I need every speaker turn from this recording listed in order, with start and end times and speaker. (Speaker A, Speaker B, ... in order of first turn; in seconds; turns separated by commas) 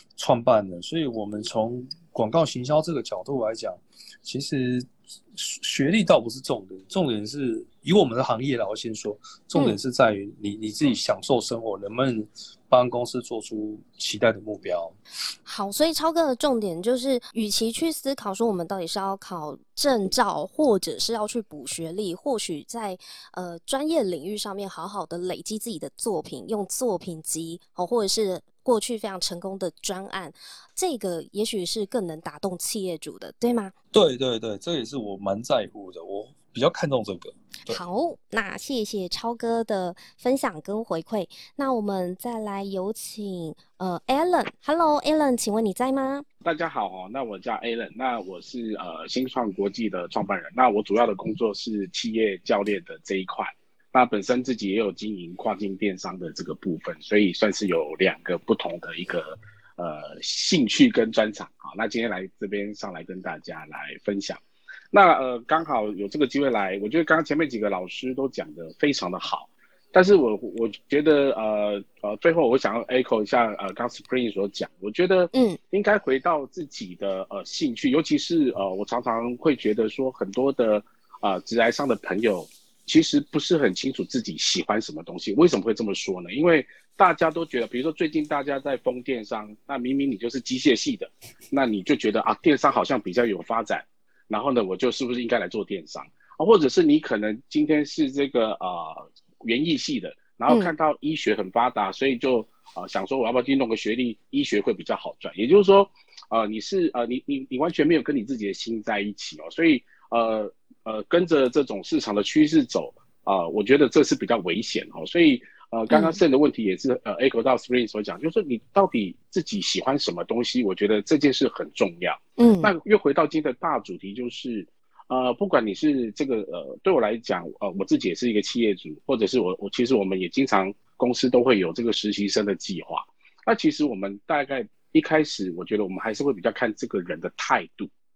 Speaker A: 0.1-14.9, Speaker B: 15.4-33.7, Speaker A: 33.9-37.8, Speaker B: 37.7-46.2, Speaker C: 46.4-64.4, Speaker C: 64.9-137.9, Speaker B: 75.3-75.6, Speaker B: 115.9-116.2, Speaker B: 122.4-122.7